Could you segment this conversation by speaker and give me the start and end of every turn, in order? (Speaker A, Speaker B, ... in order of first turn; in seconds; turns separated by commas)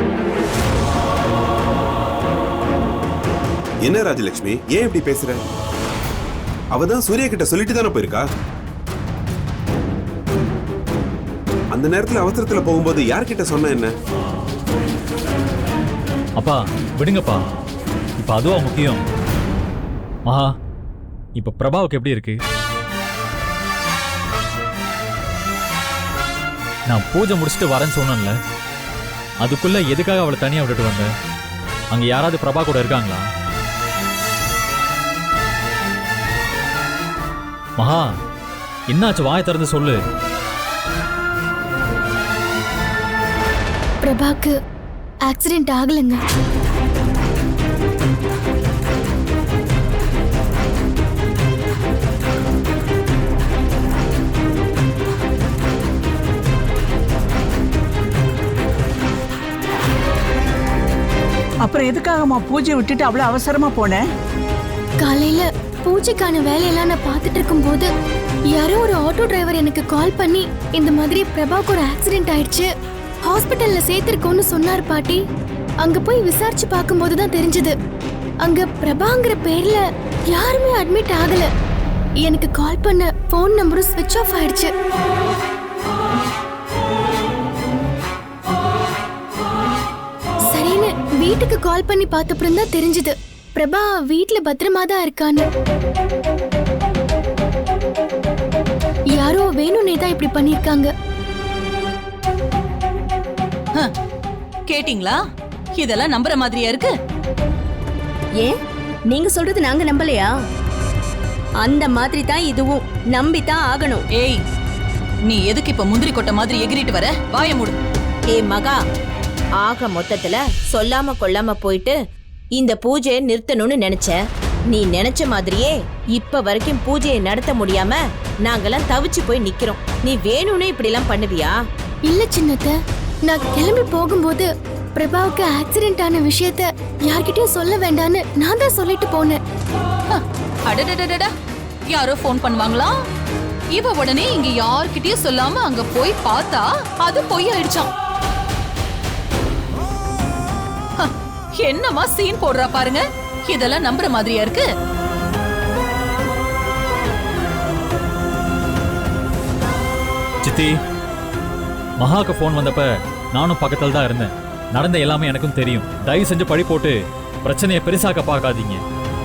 Speaker A: 3.9-5.4, Speaker A: 6.7-8.2, Speaker A: 11.7-13.9, Speaker B: 16.4-17.4, Speaker B: 18.2-19.0, Speaker B: 21.4-22.4, Speaker B: 26.9-28.4, Speaker B: 29.4-31.1, Speaker B: 31.9-33.2, Speaker B: 37.8-38.1, Speaker B: 38.9-40.0, Speaker C: 44.0-44.5, Speaker C: 45.3-46.2, Speaker D: 61.6-64.0, Speaker C: 65.0-67.9, Speaker C: 68.5-72.7, Speaker C: 73.2-75.2, Speaker C: 75.8-77.8, Speaker C: 78.4-81.5, Speaker C: 82.2-84.7, Speaker C: 90.5-95.5, Speaker C: 99.2-100.9, Speaker E: 104.7-105.2, Speaker E: 105.8-106.9, Speaker F: 109.1-110.3, Speaker F: 111.6-114.0, Speaker E: 115.3-117.8, Speaker G: 118.3-118.8, Speaker G: 119.6-122.0, Speaker G: 122.6-124.2, Speaker G: 124.7-131.6, Speaker C: 132.1-132.7, Speaker C: 133.3-139.4, Speaker E: 140.1-141.3, Speaker E: 141.9-143.0, Speaker E: 143.7-147.9, Speaker E: 151.0-154.7, Speaker B: 160.4-160.7, Speaker B: 162.0-168.8